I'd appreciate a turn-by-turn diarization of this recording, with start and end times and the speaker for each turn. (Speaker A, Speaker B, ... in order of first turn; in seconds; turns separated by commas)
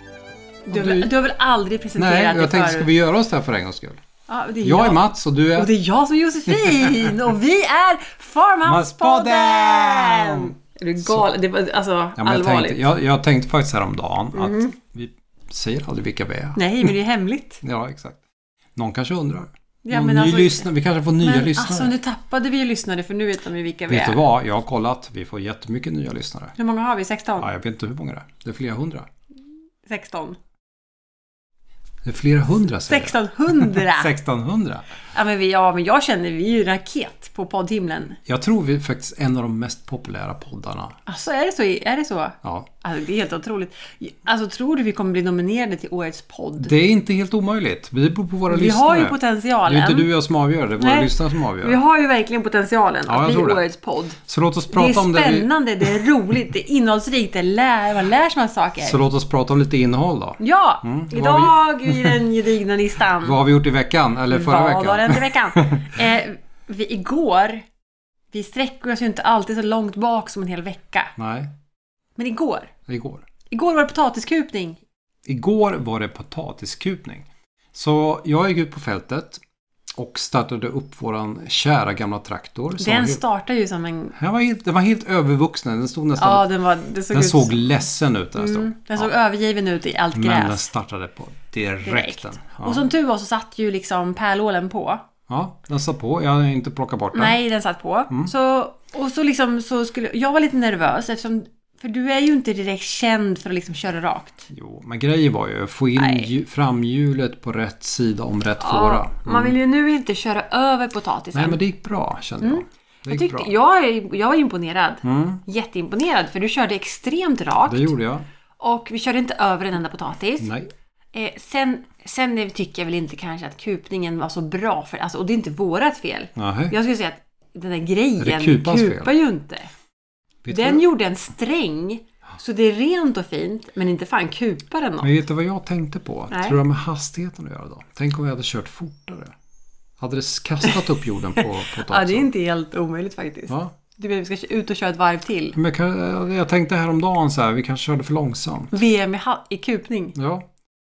Speaker A: 0.7-2.9, Speaker B: 0.7-1.1, Speaker B: 2.0-4.0, Speaker A: 4.3-5.0, Speaker B: 4.6-5.7, Speaker A: 5.5-12.9, Speaker B: 6.5-7.2, Speaker B: 8.6-11.3, Speaker B: 12.2-16.9, Speaker A: 14.3-14.7, Speaker A: 16.6-17.6, Speaker B: 17.6-18.2, Speaker B: 18.8-21.9, Speaker A: 19.8-24.2, Speaker B: 23.9-26.5, Speaker A: 26.6-27.5, Speaker B: 27.4-29.1, Speaker A: 29.9-30.4, Speaker B: 32.0-34.8, Speaker A: 32.6-34.1, Speaker A: 35.1-38.2, Speaker B: 38.2-41.0, Speaker A: 41.0-46.7, Speaker B: 42.4-42.7, Speaker B: 46.6-51.8, Speaker A: 48.5-50.1, Speaker A: 50.8-54.2, Speaker B: 53.1-53.6, Speaker B: 54.2-56.1, Speaker A: 54.7-59.0, Speaker B: 58.8-62.2, Speaker A: 60.4-63.4, Speaker B: 63.2-66.0, Speaker A: 64.3-67.6, Speaker A: 68.3-71.1, Speaker B: 71.2-71.5, Speaker A: 72.2-72.7, Speaker B: 72.9-73.2, Speaker A: 73.5-74.8, Speaker B: 75.2-79.4, Speaker B: 80.0-83.2, Speaker A: 82.8-84.1, Speaker B: 84.1-86.4, Speaker A: 86.2-87.8, Speaker B: 87.1-89.1, Speaker A: 88.3-90.6, Speaker B: 90.1-92.8, Speaker A: 91.8-95.0, Speaker B: 95.3-97.4, Speaker A: 97.1-104.5, Speaker B: 104.5-109.6, Speaker A: 106.0-106.3, Speaker A: 108.6-111.6, Speaker B: 111.3-113.5, Speaker A: 112.4-117.9, Speaker B: 115.0-115.4, Speaker B: 117.7-118.2, Speaker A: 118.6-120.5, Speaker B: 120.4-120.7, Speaker A: 121.1-129.7, Speaker B: 126.3-126.7, Speaker B: 128.2-129.1, Speaker B: 130.4-130.8, Speaker A: 130.5-135.1, Speaker B: 135.0-139.3, Speaker A: 136.3-136.6, Speaker B: 140.0-142.3, Speaker A: 141.3-145.6, Speaker B: 145.5-148.8, Speaker A: 148.7-150.1, Speaker B: 150.1-150.4